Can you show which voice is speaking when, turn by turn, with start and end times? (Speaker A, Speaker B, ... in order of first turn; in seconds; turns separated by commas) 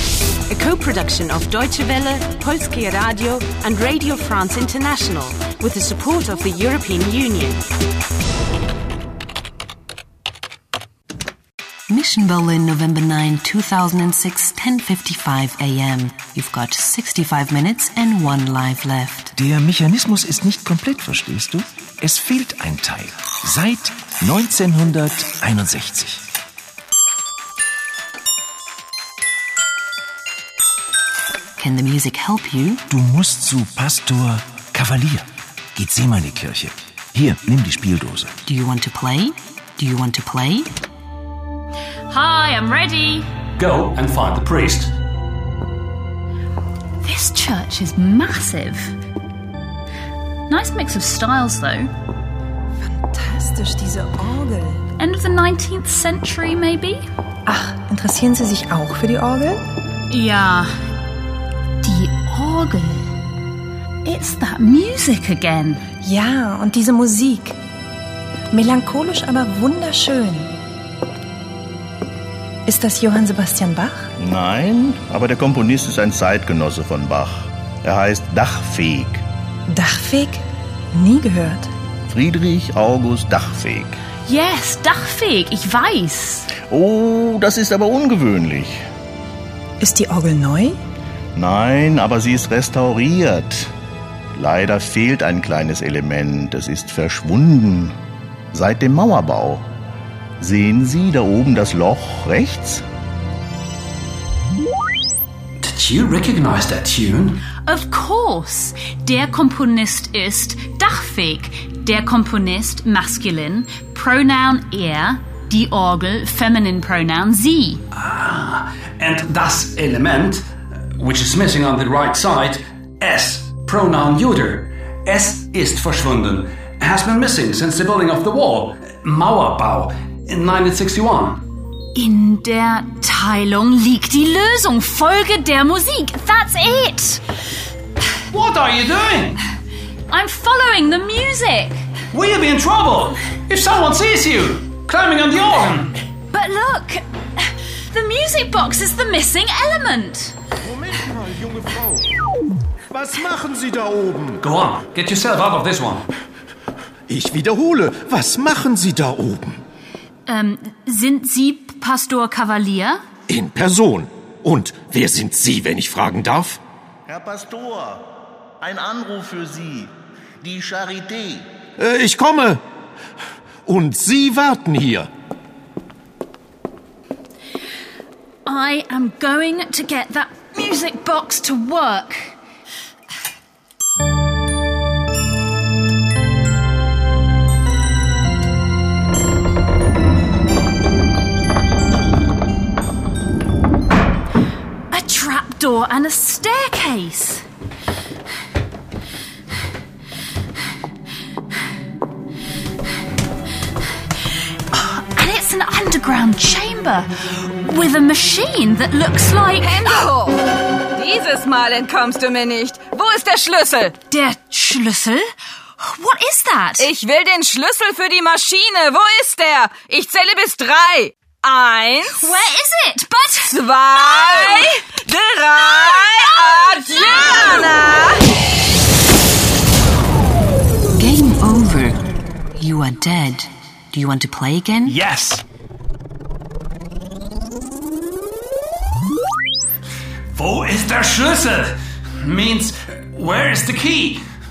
Speaker A: 0.5-7.6, Speaker B: 11.9-19.3, Speaker C: 19.4-26.2, Speaker B: 31.6-32.8, Speaker C: 32.9-35.2, Speaker C: 35.8-38.3, Speaker B: 38.5-40.7, Speaker D: 42.1-43.2, Speaker E: 43.6-44.9, Speaker D: 47.0-48.9, Speaker D: 50.5-51.9, Speaker F: 52.8-54.8, Speaker D: 55.0-57.0, Speaker F: 57.5-59.6, Speaker D: 60.1-60.7, Speaker D: 61.8-63.1, Speaker D: 64.0-65.8, Speaker F: 66.0-67.6, Speaker F: 68.5-70.5, Speaker F: 72.7-74.1, Speaker G: 74.2-79.2, Speaker F: 79.7-80.4, Speaker F: 80.9-81.7, Speaker G: 82.1-84.0, Speaker D: 84.3-86.5, Speaker G: 86.7-88.8, Speaker F: 89.8-90.8, Speaker G: 91.4-93.7, Speaker G: 94.4-97.9, Speaker G: 98.5-99.7, Speaker G: 100.4-102.8, Speaker E: 105.6-107.4, Speaker D: 107.7-117.8, Speaker E: 117.9-120.5, Speaker E: 121.0-131.4, Speaker D: 131.9-137.2, Speaker E: 138.3-139.4, Speaker D: 140.1-141.8, Speaker E: 142.1-145.9, Speaker D: 146.3-147.0, Speaker D: 147.9-150.3, Speaker H: 150.7-152.1, Speaker H: 152.9-154.4, Speaker E: 154.4-156.1, Speaker H: 157.1-159.6, Speaker D: 160.3-163.0, Speaker H: 163.3-166.6, Speaker G: 167.1-168.1, Speaker G: 168.6-171.5, Speaker H: 171.8-172.6, Speaker H: 173.7-175.1, Speaker D: 178.5-182.3, Speaker D: 194.9-197.4, Speaker D: 204.7-210.1, Speaker I: 209.6-214.0, Speaker D: 214.1-216.9, Speaker I: 216.8-222.3, Speaker D: 222.1-223.6, Speaker I: 223.4-228.3, Speaker B: 230.9-232.0, Speaker B: 232.6-234.9, Speaker E: 234.8-235.4, Speaker E: 240.3-244.2